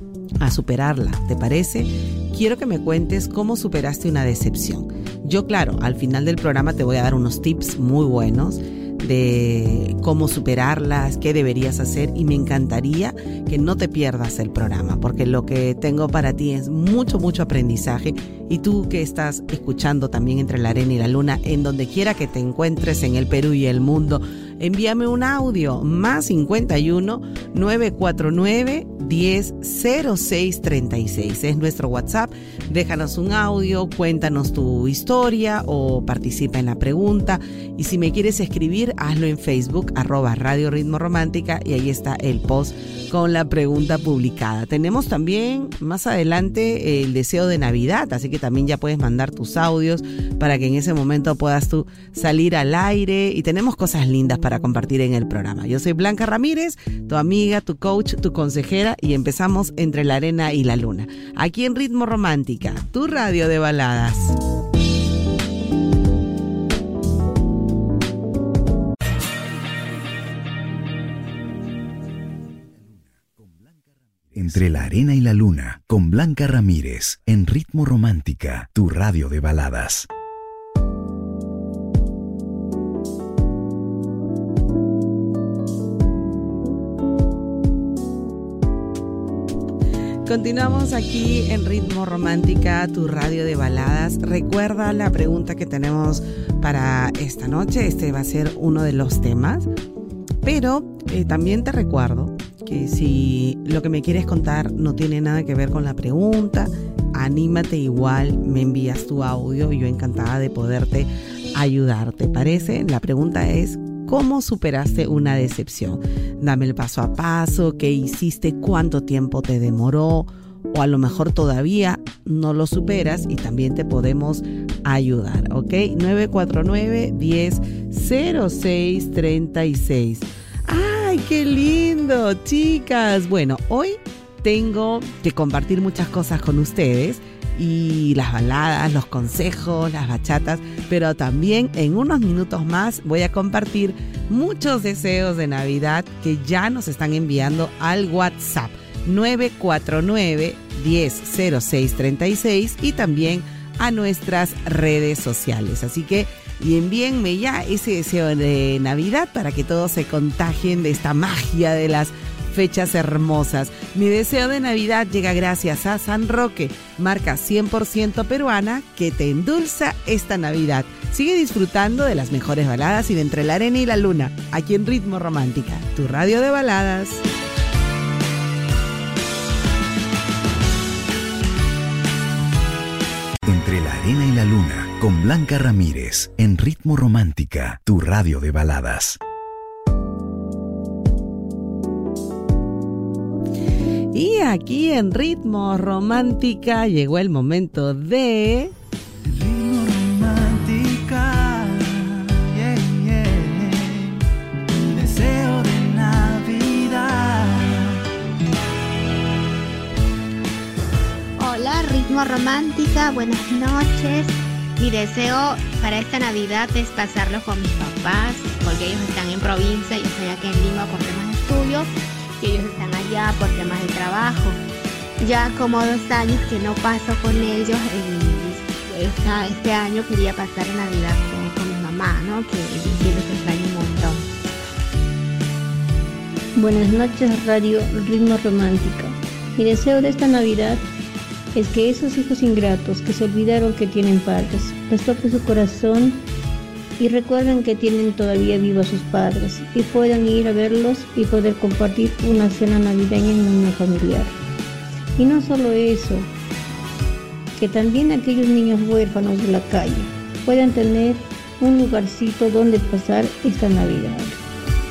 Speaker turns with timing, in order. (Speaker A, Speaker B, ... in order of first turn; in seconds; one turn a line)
Speaker A: 0.4-64.2
Speaker B: 72.8-80.1
Speaker A: 90.2-99.6
Speaker A: 100.4-177.1
Speaker B: 183.4-189.2
Speaker A: 194.1-198.5
Speaker C: 199.4-200.5
Speaker A: 201.1-201.7
Speaker C: 204.9-207.9
Speaker A: 206.2-206.9
Speaker D: 211.4-224.6
Speaker D: 225.2-234.2
Speaker E: 236.6-240.8
Speaker E: 241.5-246.2
Speaker E: 247.0-254.3
Speaker E: 255.2-256.3
Speaker E: 257.6-264.4